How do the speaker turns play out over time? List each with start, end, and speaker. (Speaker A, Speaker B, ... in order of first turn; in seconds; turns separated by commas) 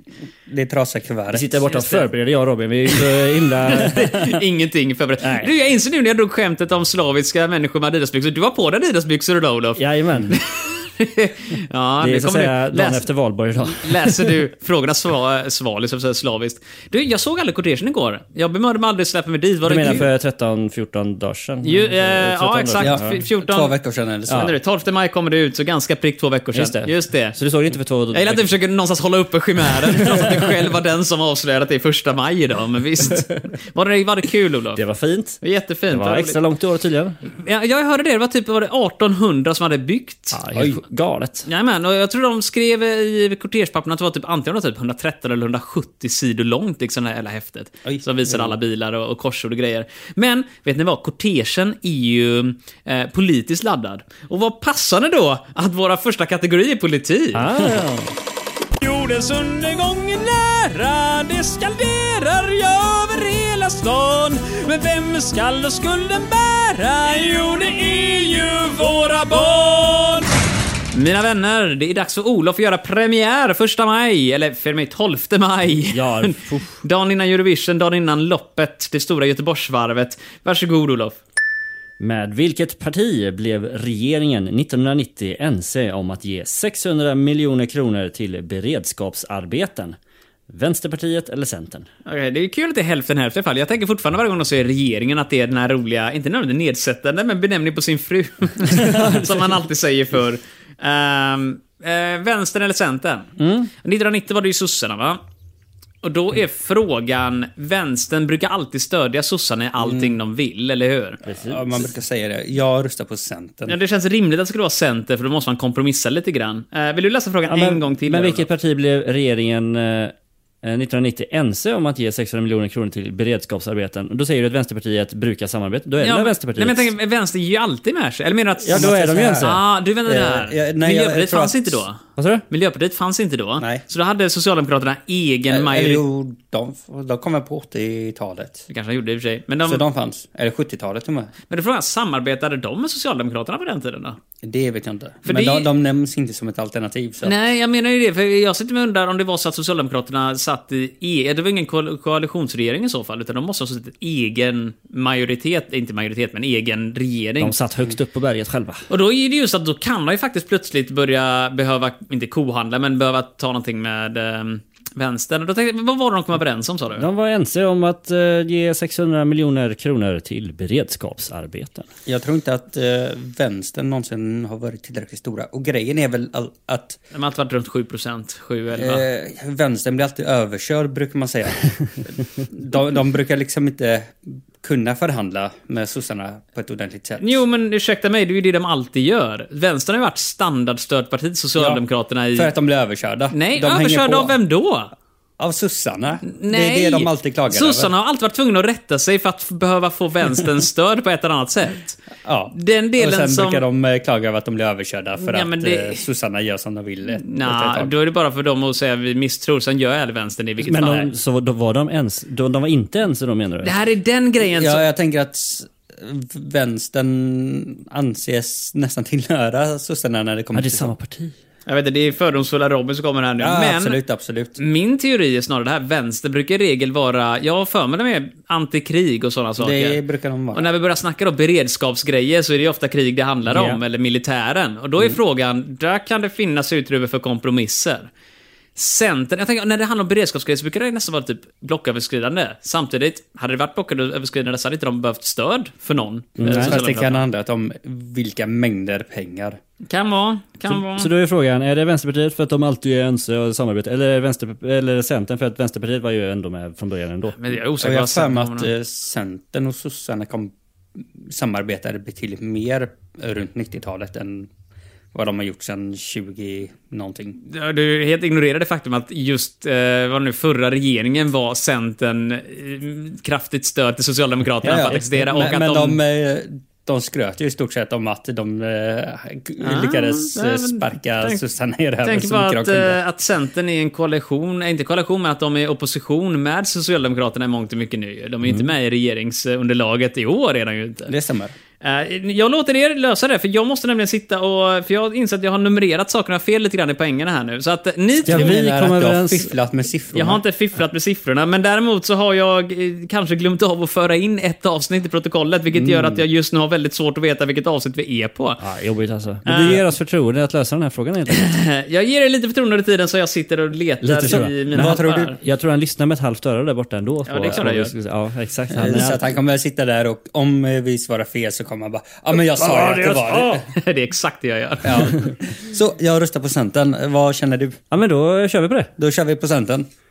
Speaker A: 0.5-1.6, Speaker B: 1.3-4.4, Speaker C: 1.7-2.0, Speaker C: 3.6-13.1, Speaker B: 5.2-5.5, Speaker B: 9.8-10.4, Speaker B: 12.0-14.3, Speaker C: 13.6-20.1, Speaker B: 19.6-23.2, Speaker C: 21.6-23.7, Speaker A: 22.8-24.5, Speaker B: 24.3-24.5, Speaker C: 24.3-27.4, Speaker B: 26.5-28.5, Speaker C: 28.1-34.8, Speaker B: 30.0-30.4, Speaker B: 34.8-37.1, Speaker C: 35.4-36.4, Speaker C: 37.3-40.4, Speaker B: 40.3-41.5, Speaker A: 40.5-40.8, Speaker C: 41.5-57.6, Speaker A: 47.8-48.5, Speaker B: 57.3-58.1, Speaker C: 58.8-70.3, Speaker C: 70.9-81.2, Speaker B: 75.9-76.8, Speaker B: 82.0-90.0, Speaker B: 90.5-91.9, Speaker C: 92.0-105.2, Speaker B: 98.8-99.3, Speaker C: 106.0-111.2, Speaker A: 109.8-110.1, Speaker B: 111.2-111.8, Speaker A: 111.3-113.7, Speaker C: 113.7-118.5, Speaker B: 117.5-126.9, Speaker C: 126.0-136.0, Speaker B: 128.6-129.6, Speaker A: 128.7-131.8, Speaker B: 132.2-132.4, Speaker A: 135.5-138.7, Speaker C: 138.7-139.8, Speaker A: 139.7-141.3, Speaker C: 141.5-144.2, Speaker A: 144.4-147.3, Speaker C: 145.2-145.7, Speaker C: 147.2-157.5, Speaker B: 157.4-158.8, Speaker C: 158.9-167.1, Speaker B: 167.0-171.9, Speaker A: 172.1-177.0, Speaker C: 177.1-179.0, Speaker A: 178.7-181.7, Speaker A: 182.5-187.4, Speaker C: 187.2-192.5, Speaker A: 192.3-194.3, Speaker C: 193.3-194.9, Speaker A: 195.4-197.9, Speaker C: 196.3-202.0, Speaker A: 202.2-207.9, Speaker C: 202.5-203.6, Speaker C: 205.2-206.0, Speaker C: 207.2-211.1, Speaker B: 210.6-213.7, Speaker C: 213.6-214.8, Speaker A: 214.4-220.9, Speaker B: 220.5-221.3, Speaker C: 221.7-224.0, Speaker A: 223.4-224.6, Speaker C: 224.6-230.0, Speaker A: 229.6-230.7, Speaker C: 230.5-238.1, Speaker C: 238.8-247.2, Speaker B: 246.4-246.8, Speaker A: 246.4-249.6, Speaker C: 249.8-251.1, Speaker B: 250.7-257.4, Speaker C: 257.3-258.7, Speaker A: 257.8-260.5, Speaker A: 261.2-264.5, Speaker A: 265.1-267.4, Speaker C: 267.4-276.0, Speaker A: 274.6-283.0, Speaker C: 279.6-281.4, Speaker C: 282.0-291.1, Speaker A: 291.1-291.6, Speaker C: 291.8-298.6, Speaker A: 298.2-300.4, Speaker B: 298.3-299.5, Speaker C: 300.1-308.6, Speaker B: 308.6-311.5, Speaker C: 309.4-309.8, Speaker C: 311.3-315.4, Speaker B: 314.0-319.3, Speaker A: 314.3-315.3, Speaker C: 317.2-317.9, Speaker A: 318.7-323.7, Speaker B: 322.4-323.6, Speaker C: 323.6-325.3, Speaker A: 324.8-327.8, Speaker B: 327.9-328.9, Speaker A: 329.0-329.9